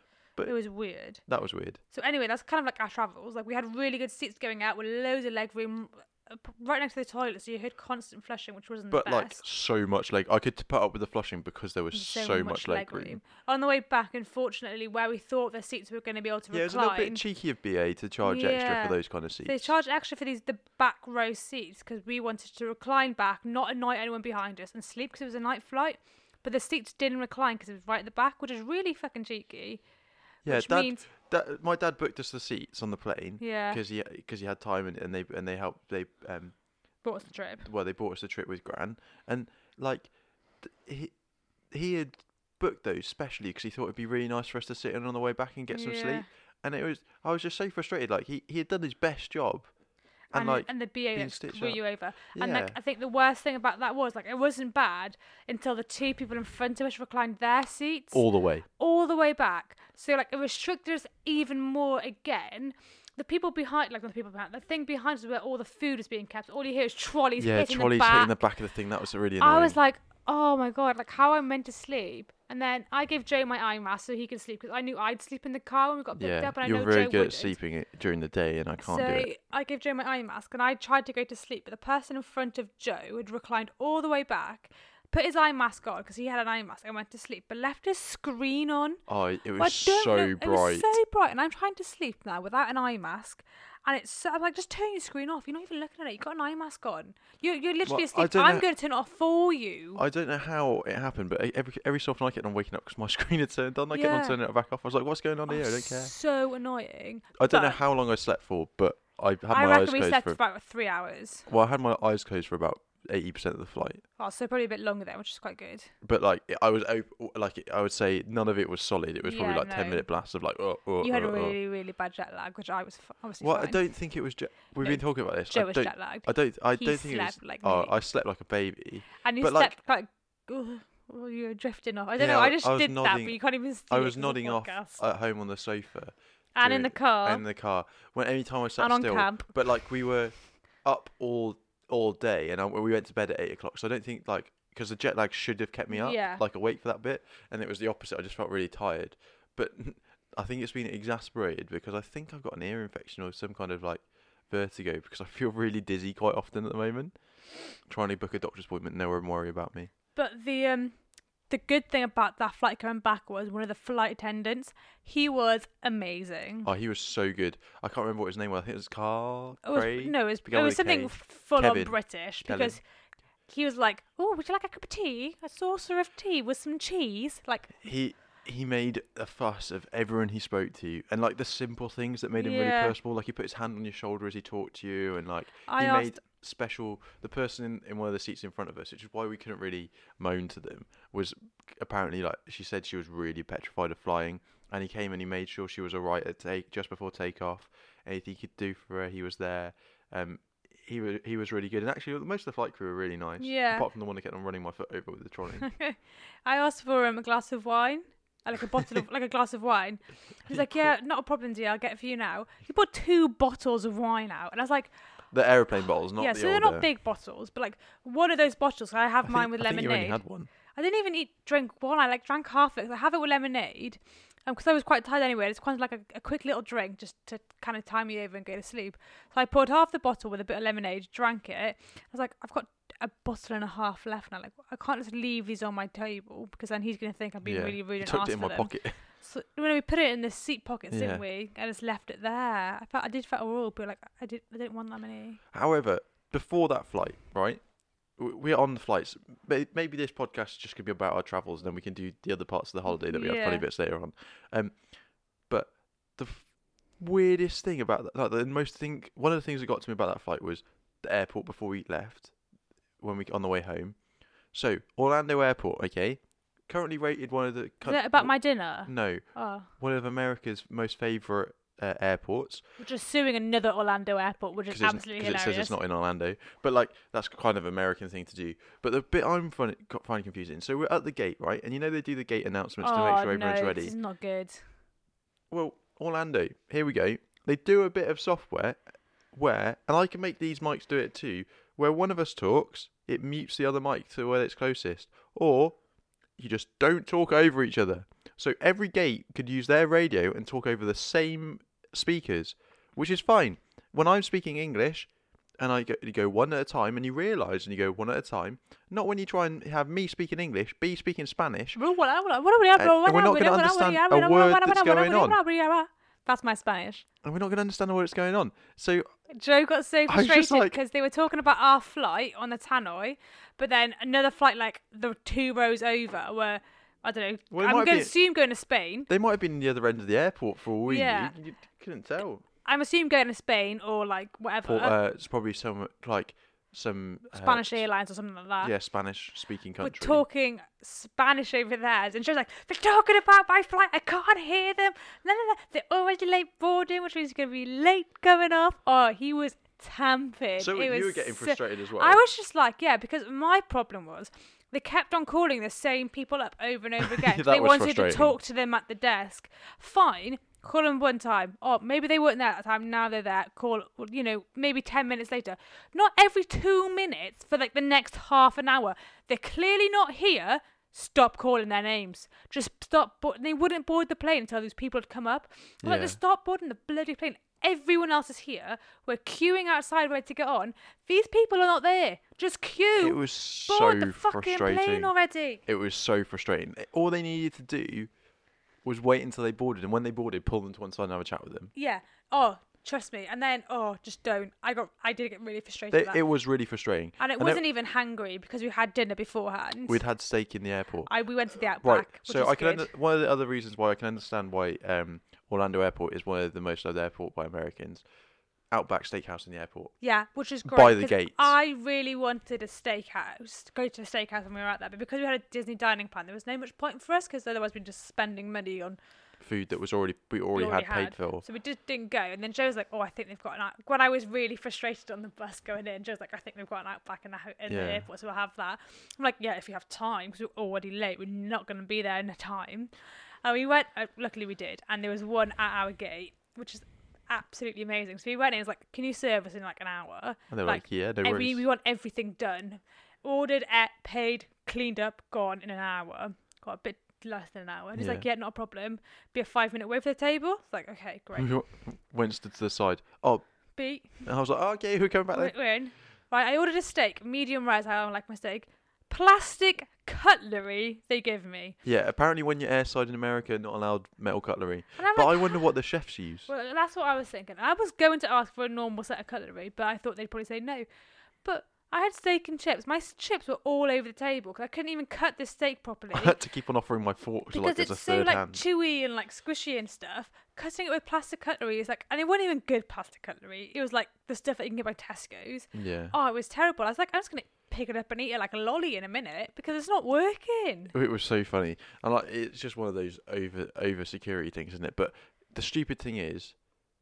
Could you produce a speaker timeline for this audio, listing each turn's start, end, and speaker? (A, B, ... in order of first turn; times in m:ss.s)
0:00.4-0:01.2 A
0:01.2-0:01.8 B
0:01.9-0:09.4 A
0:08.9-0:13.2 B
0:11.9-0:17.2 A
0:16.5-0:19.7 B
0:18.2-0:29.8 A
0:30.4-0:36.6 B
0:30.4-0:31.0 A
0:33.4-0:33.8 A
0:37.0-0:37.7 A
0:37.6-0:41.2 B
0:41.7-0:49.7 B
0:45.7-0:46.3 A
0:50.3-0:51.8 B
0:50.3-1:08.4 A
0:52.3-0:52.8 B
0:58.1-0:58.6 B
1:07.4-1:09.8 B
1:09.4-1:17.6 A
1:16.2-1:19.3 B
1:18.8-1:29.0 A
1:29.1-1:31.0 B
1:29.6-1:40.0 A
1:37.8-1:38.6 B
1:40.0-1:46.1 B
1:43.9-1:44.4 A
1:45.5-1:47.8 A
1:47.4-1:50.4 B
1:49.5-1:51.5 A
1:51.5-1:54.0 B
1:54.2-1:55.9 A
1:56.0-2:01.6 B
1:59.2-2:00.1 A
2:01.0-2:03.8 A
2:03.4-2:09.7 B
2:04.8-2:07.9 A
2:09.2-2:15.0 A
2:12.2-2:37.1 B
2:16.5-2:17.4 A
2:18.8-2:19.5 A
2:25.9-2:26.4 A
2:37.8-2:39.9 B
2:40.1-2:41.0 A
2:41.5-2:46.7 A
2:46.6-2:52.8 B
2:49.6-2:52.8 A
2:53.5-2:57.8 A
2:57.8-3:25.7 B
3:02.4-3:02.9 A
3:05.7-3:06.2 A
3:23.4-3:23.9 A
3:25.6-3:34.9 A
3:30.5-3:30.9 B
3:35.3-3:36.9 B
3:36.2-4:05.4 A
3:39.2-3:40.5 B
3:57.4-3:59.0 B
4:00.9-4:01.2 B
4:05.5-4:22.3 B
4:12.9-4:13.6 A
4:23.0-4:32.6 B
4:27.8-4:29.7 A
4:32.8-4:35.8 A
4:34.7-4:43.9 B
4:42.8-4:44.6 A
4:45.5-4:48.8 B
4:49.3-4:55.8 B
4:56.4-5:11.8 B
5:11.7-5:17.0 A
5:12.8-5:15.4 B
5:17.2-5:19.1 B
5:19.3-5:29.1 A
5:20.1-5:20.8 B
5:27.5-5:28.1 B
5:29.1-5:32.4 B
5:30.8-5:31.4 A
5:32.6-5:35.0 A
5:34.6-5:37.8 B
5:37.3-5:38.7 A
5:38.6-5:40.2 B
5:39.8-6:25.6 A
5:50.6-5:52.2 B
5:57.0-5:58.3 B
6:15.8-6:16.2 B
6:23.0-6:25.1 B
6:25.6-6:28.1 B
6:28.8-6:31.7 B
6:31.7-6:36.2 A
6:35.9-6:37.6 B
6:37.2-6:40.0 A
6:39.9-6:41.1 B
6:41.0-6:42.9 A
6:41.8-6:48.0 B
6:48.7-6:49.9 B
6:50.0-6:59.0 A
6:50.6-6:51.5 B
6:59.4-7:01.4 B
7:00.5-7:12.9 A
7:07.7-7:08.0 B
7:13.4-7:31.5 A
7:20.5-7:21.6 B
7:27.9-7:28.2 B
7:31.3-7:33.5 B
7:33.8-7:34.2 A
7:34.2-7:35.5 B
7:35.3-7:41.8 A
7:41.8-7:46.5 B
7:45.0-7:45.7 A
7:46.5-7:50.9 A
7:51.4-7:56.4 A
7:56.1-7:58.6 B
7:57.5-8:10.9 A
8:05.7-8:06.1 B
8:10.9-8:16.6 B